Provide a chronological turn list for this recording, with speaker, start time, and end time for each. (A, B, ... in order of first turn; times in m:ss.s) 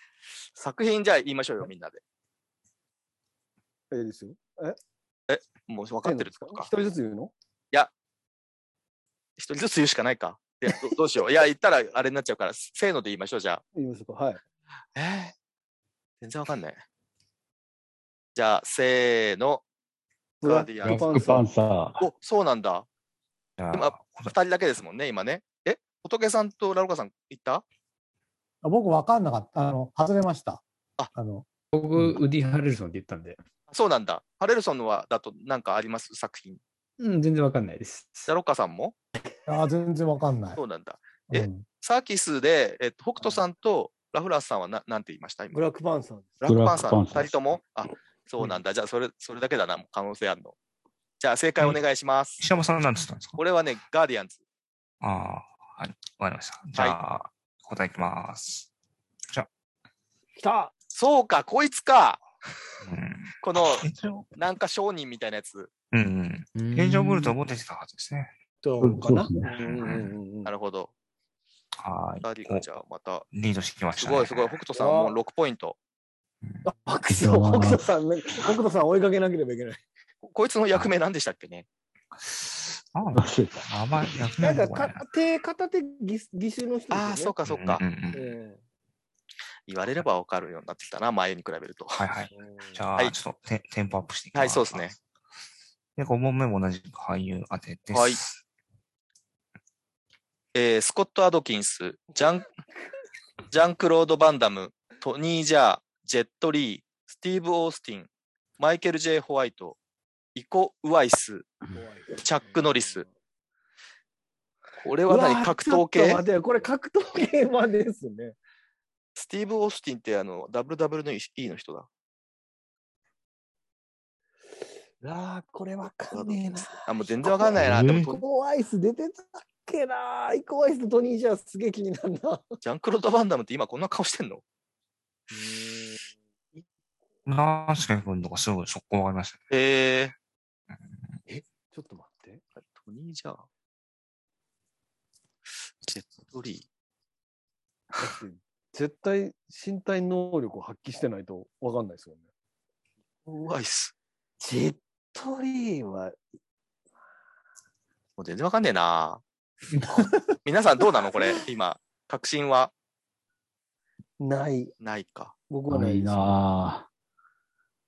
0:00.5-0:02.0 A
0:03.9-0:04.8 B
0:05.3-0:06.7 A
0:06.0-0:07.3 B
0:09.4-0:13.6 A
0:13.7-0:14.4 B
0:15.0-0:15.3 A
0:16.2-0:16.8 A
0:18.3-0:19.6 A
0:20.4-0:21.2 A
0:20.4-0:21.5 B
0:20.8-0:22.1 C
0:22.0-0:22.8 A
0:23.6-0:24.3 D
0:23.7-0:27.6 A
0:28.6-0:30.6 E
0:31.1-0:31.4 E
0:31.7-0:33.4 F
0:33.7-0:36.6 A
0:37.0-0:38.3 F
0:38.3-0:38.9 A
0:39.5-0:40.6 E
0:40.6-0:45.6 A
0:41.3-0:41.6 E
0:45.5-0:46.5 B
0:46.4-0:50.6 A
0:46.4-0:47.4 C
0:51.2-0:52.4 A
0:52.4-0:53.4 D
0:53.4-0:54.4 A
0:55.0-0:58.7 D
1:00.4-1:00.7 B
1:00.9-1:02.2 A
1:02.8-1:04.3 D
1:03.4-1:03.8 A
1:04.4-1:05.7 A
1:05.9-1:08.3 D
1:06.5-1:07.4 F
1:08.6-1:10.5 B
1:08.8-1:09.5 C
1:09.6-1:10.1 D
1:10.4-1:10.9 A
1:11.8-1:12.6 D
1:12.2-1:13.3 A
1:13.3-1:14.6 D
1:14.0-1:15.8 A
1:14.7-1:15.2 B
1:16.6-1:19.8 B
1:17.1-1:17.9 C
1:20.2-1:21.6 A
1:22.2-1:25.0 D
1:23.1-1:24.0 C
1:24.4-1:27.3 B
1:26.9-1:27.8 A
1:27.4-1:28.4 D
1:28.1-1:28.6 B
1:29.7-1:32.0 A
1:32.0-1:35.0 D
1:32.3-1:32.8 B
1:34.3-1:34.9 A
1:36.0-1:38.4 D
1:37.9-1:38.2 A
1:40.5-1:42.5 A
1:42.1-1:42.5 B
1:43.5-1:48.1 A
1:48.6-1:49.8 A
1:50.3-1:51.5 A
1:51.7-1:53.1 B
1:52.1-1:53.0 A
1:54.8-1:56.2 A
1:55.1-1:58.4 B
1:59.2-2:01.9 A
2:05.0-2:12.6 B
2:06.1-2:08.2 A
2:07.6-2:08.1 C
2:12.6-2:14.4 A
2:15.3-2:16.0 B
2:17.2-2:19.4 D
2:19.5-2:20.1 A
2:21.3-2:22.4 B
2:22.6-2:23.4 A
2:25.8-2:26.6 A
2:28.0-2:32.2 B
2:33.2-2:33.9 A
2:34.4-2:36.2 B
2:38.2-2:39.2 A
2:40.4-2:42.7 A
2:44.2-2:44.7 B
2:44.8-2:45.3 A
2:45.5-2:46.4 B
2:45.7-2:46.8 C